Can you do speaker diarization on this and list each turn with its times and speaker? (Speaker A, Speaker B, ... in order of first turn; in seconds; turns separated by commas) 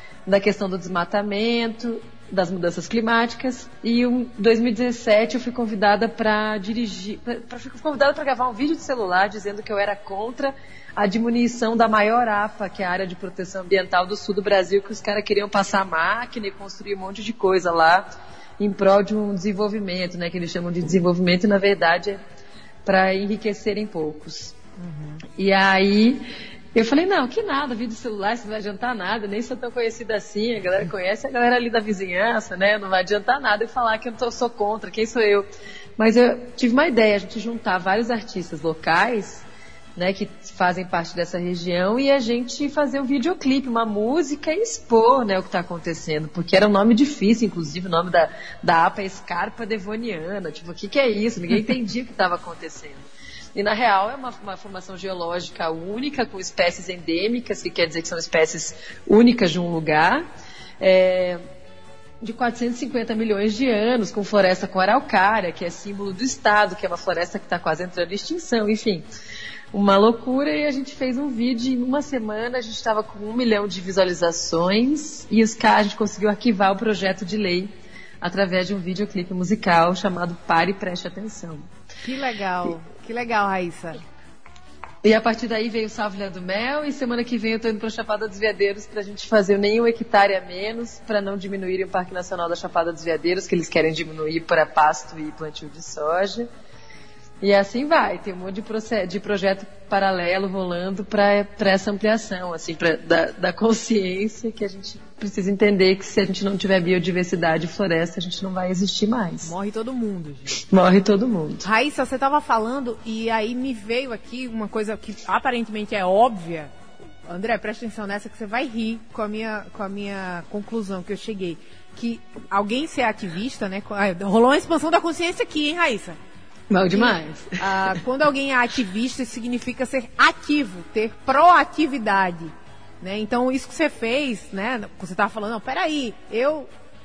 Speaker A: 0.3-22.2, Speaker A: 22.9-24.6, Speaker B: 24.8-25.2, Speaker A: 25.4-39.5, Speaker A: 40.0-60.3, Speaker A: 60.8-61.4, Speaker A: 62.2-69.1, Speaker A: 69.7-81.7, Speaker B: 82.0-84.0, Speaker A: 85.0-96.5, Speaker A: 97.4-109.5, Speaker B: 109.4-110.6, Speaker A: 110.6-111.7, Speaker B: 111.6-116.7, Speaker B: 117.3-126.2, Speaker A: 126.7-127.9, Speaker B: 126.9-136.7